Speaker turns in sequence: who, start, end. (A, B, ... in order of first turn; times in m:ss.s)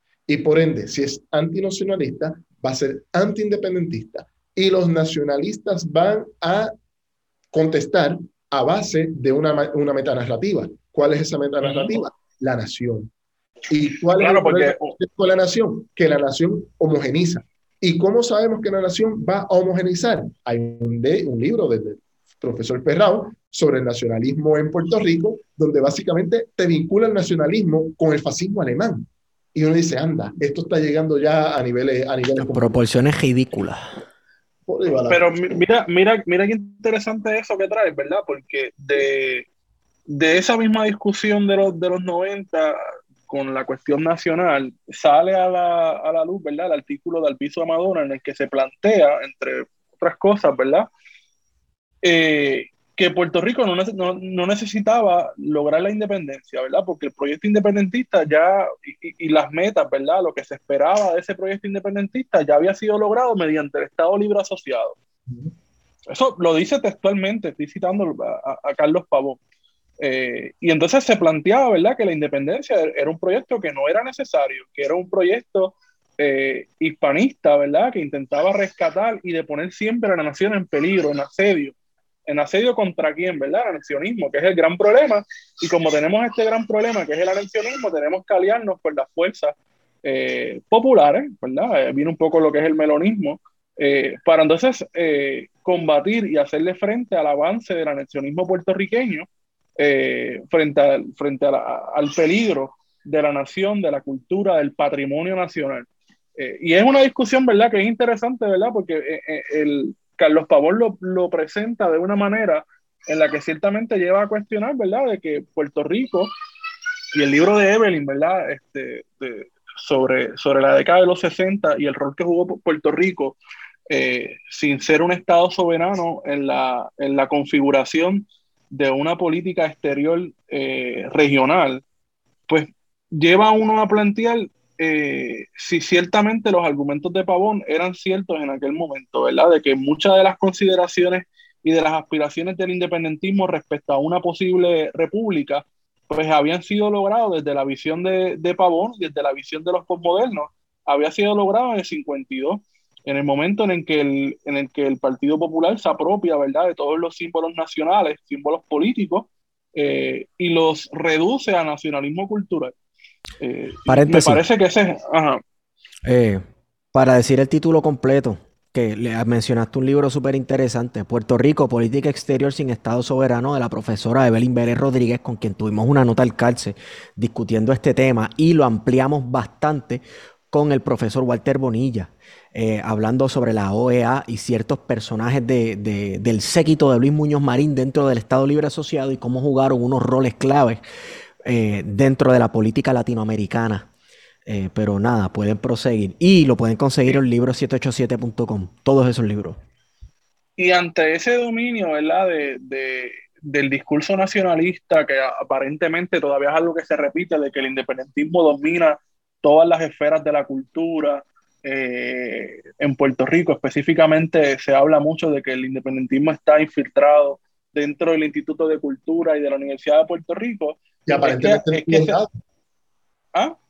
0:00.3-0:06.7 A
0:07.5-0:13.1 A
0:11.6-0:11.9 B
0:13.7-0:32.7 A
0:14.2-0:14.9 B
0:32.4-0:33.9 C
0:34.7-0:35.3 A
0:35.1-0:39.5 B
0:40.1-0:50.9 B
0:52.0-1:05.0 B
1:05.3-1:05.5 A
1:06.1-1:09.4 B
1:10.0-1:21.8 B
1:22.3-1:39.3 B
1:39.8-1:56.3 B
1:57.1-2:03.4 B
2:03.9-2:11.8 B
2:12.5-2:42.7 B
2:43.4-2:45.4 B
2:43.9-2:44.4 C
2:46.0-3:10.8 C
3:11.4-3:13.9 C
3:14.5-3:19.6 C
3:20.6-3:42.2 B
3:41.1-3:42.3 A